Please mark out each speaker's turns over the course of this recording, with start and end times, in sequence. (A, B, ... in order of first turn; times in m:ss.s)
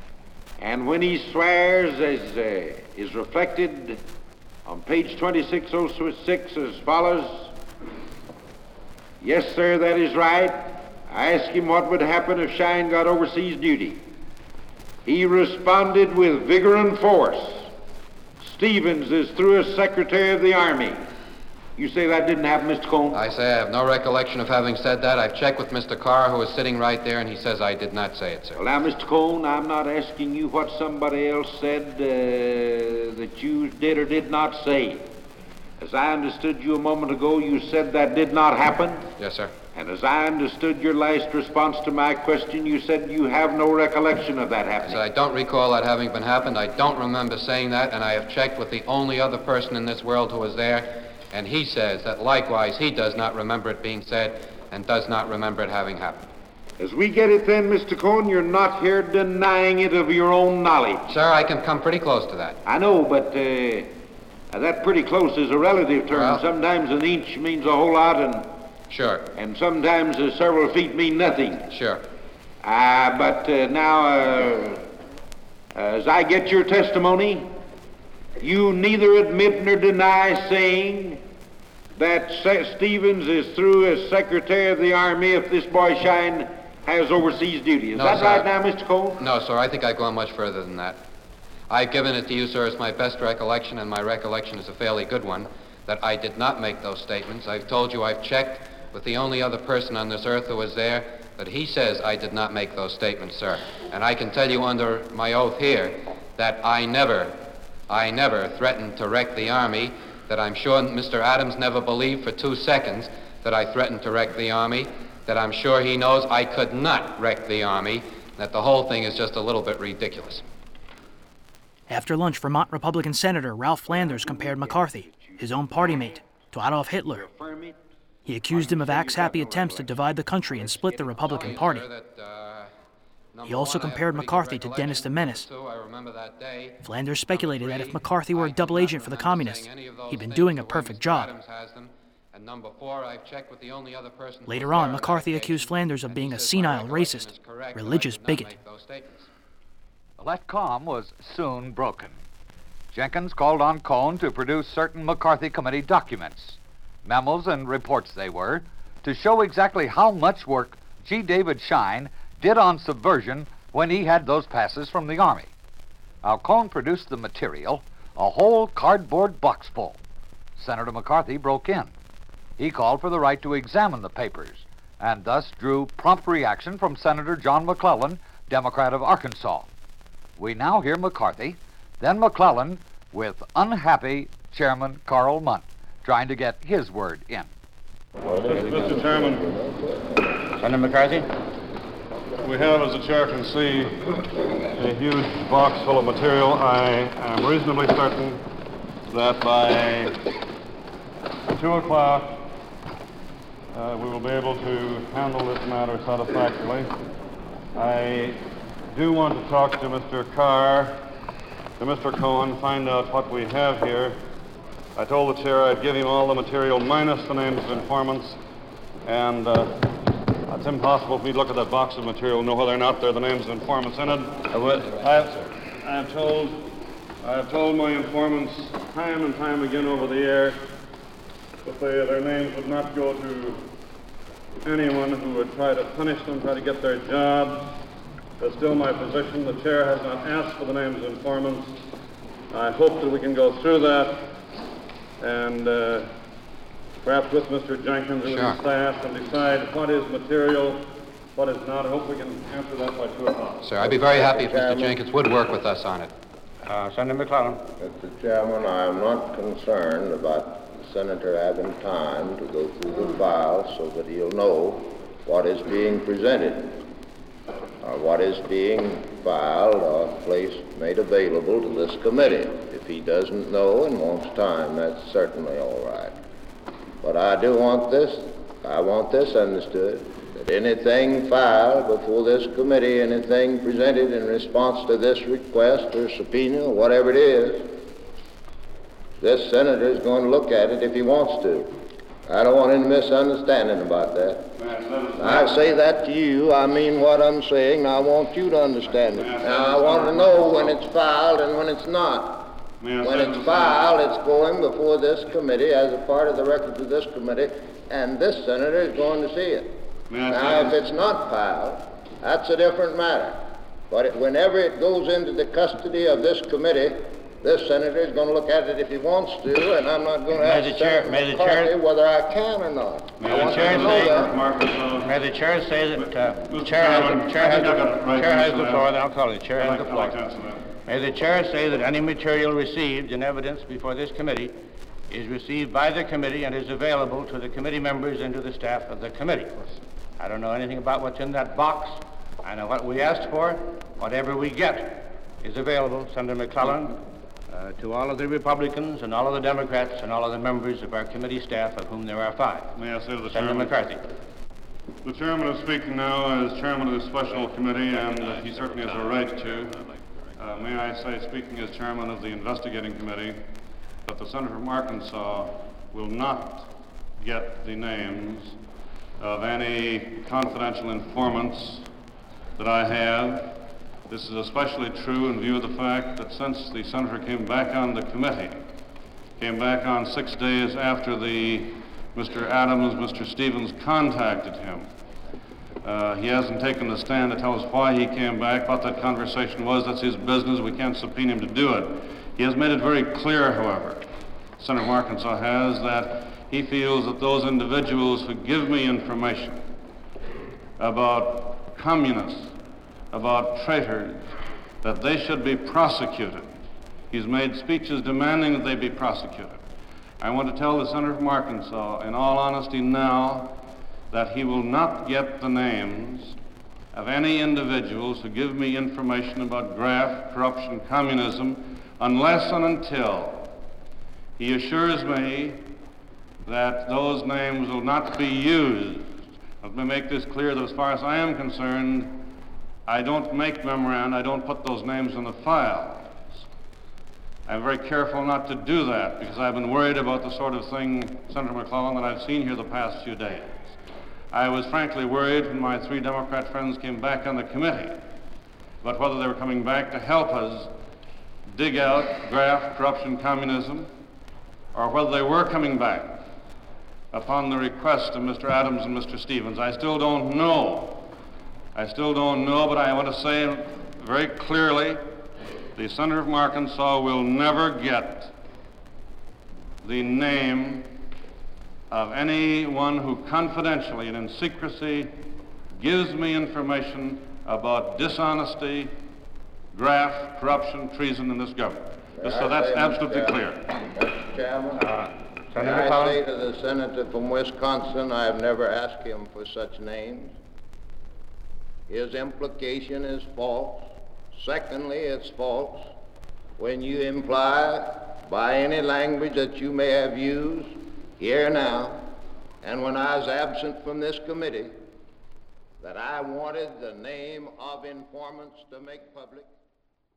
0:00.6-0:04.0 A
0:04.6-0:07.5 A
0:09.2-0:14.0 A
0:15.0-0:17.7 A
0:18.4-0:21.0 A
0:21.8-0:23.2 A
0:23.1-0:28.6 B
0:28.6-0:35.1 A
0:35.8-0:39.1 A
0:39.2-0:39.5 B
0:39.7-0:44.9 A
0:44.8-0:56.3 B
0:56.8-1:01.0 A
1:01.0-1:02.6 B
1:02.6-1:03.9 A
1:04.5-1:08.5 A
1:06.1-1:06.4 B
1:08.9-1:09.3 B
1:09.3-1:11.6 A
1:11.7-1:12.0 B
1:12.6-1:14.8 A
1:15.7-1:17.5 A
1:18.4-1:21.2 A
1:22.0-1:29.2 A
1:27.9-1:28.6 B
1:29.2-1:31.0 B
1:31.7-1:47.4 B
1:47.9-2:00.4 B
2:01.9-2:07.3 C
2:04.0-2:04.4 A
2:07.2-2:07.8 A
2:08.2-2:11.9 C
2:08.9-2:09.6 A
2:10.8-2:12.7 B
2:13.3-2:29.3 B
2:13.4-2:15.5 C
2:16.8-2:21.3 C
2:24.4-2:28.5 C
2:30.2-2:32.2 D
2:32.9-2:45.5 D
2:46.2-2:50.0 D
2:50.6-2:51.9 D
2:52.6-2:59.7 D
3:00.4-3:07.5 D
3:08.3-3:10.5 E
3:08.4-3:09.4 F
3:10.6-3:11.3 G
3:12.4-3:14.2 F
3:14.8-3:18.4 F
3:19.1-3:20.1 F
3:21.5-3:22.4 F
3:23.7-3:26.9 F
3:27.7-3:31.0 F
3:31.8-3:34.2 F
3:35.0-3:38.4 F
3:39.0-3:39.7 F
3:40.5-3:46.6 F
3:44.8-3:45.5 B
3:47.2-3:50.6 F
3:51.6-3:53.6 F
3:54.6-3:57.7 F
3:58.4-4:01.7 F
4:02.5-4:04.3 F
4:05.2-4:06.1 F
4:07.0-4:10.8 F
4:08.2-4:08.6 B
4:11.3-4:13.7 F
4:13.6-4:16.1 B
4:13.8-4:15.0 E
4:16.6-4:17.6 G
4:17.8-4:26.8 E
4:27.8-4:36.1 E
4:37.0-4:47.7 E
4:49.2-4:51.7 E
4:52.2-4:54.5 E
4:54.6-4:55.7 F
4:55.2-5:09.8 E
4:58.8-5:00.8 F
5:02.8-5:03.9 F
5:10.1-5:10.8 F
5:10.3-5:24.3 E
5:20.3-5:21.7 G
5:23.2-5:25.1 F
5:23.2-5:24.3 G
5:25.0-5:30.2 G
5:25.9-5:29.0 F
5:29.5-5:30.7 F
5:30.8-5:34.6 G
5:35.1-5:52.7 G
5:52.7-5:53.8 F
5:53.3-5:54.0 G
5:55.0-5:59.8 F
5:57.9-6:00.0 G
6:00.4-6:03.4 F
6:04.0-6:06.7 F
6:07.2-6:08.6 F
6:09.2-6:11.8 F
6:12.6-6:13.6 F
6:14.1-6:18.6 F
6:19.4-6:24.8 F
6:25.8-6:34.0 F
6:34.6-6:39.6 F
6:40.8-6:42.5 F
6:43.1-6:44.2 F
6:44.8-6:46.5 F
6:47.1-6:49.6 F
6:50.2-6:53.5 F
6:54.1-6:56.3 F
6:56.9-7:03.5 F
7:04.4-7:05.6 F
7:06.4-7:09.1 F
7:09.6-7:12.2 F
7:12.9-7:16.2 F
7:17.5-7:23.6 F
7:24.3-7:28.0 F
7:28.8-7:30.7 F
7:31.5-7:33.9 F
7:34.7-7:36.2 F
7:37.1-7:41.1 F
7:41.7-7:45.0 F
7:45.8-7:48.3 F
7:49.8-7:50.9 F
7:51.9-7:55.1 F
7:55.8-7:58.9 F
7:59.7-8:03.6 F
8:02.2-8:04.8 E
8:04.7-8:06.2 G
8:05.5-8:10.4 E
8:11.9-8:15.8 E
8:16.6-8:22.1 E
8:22.6-8:24.8 E
8:25.8-8:29.5 E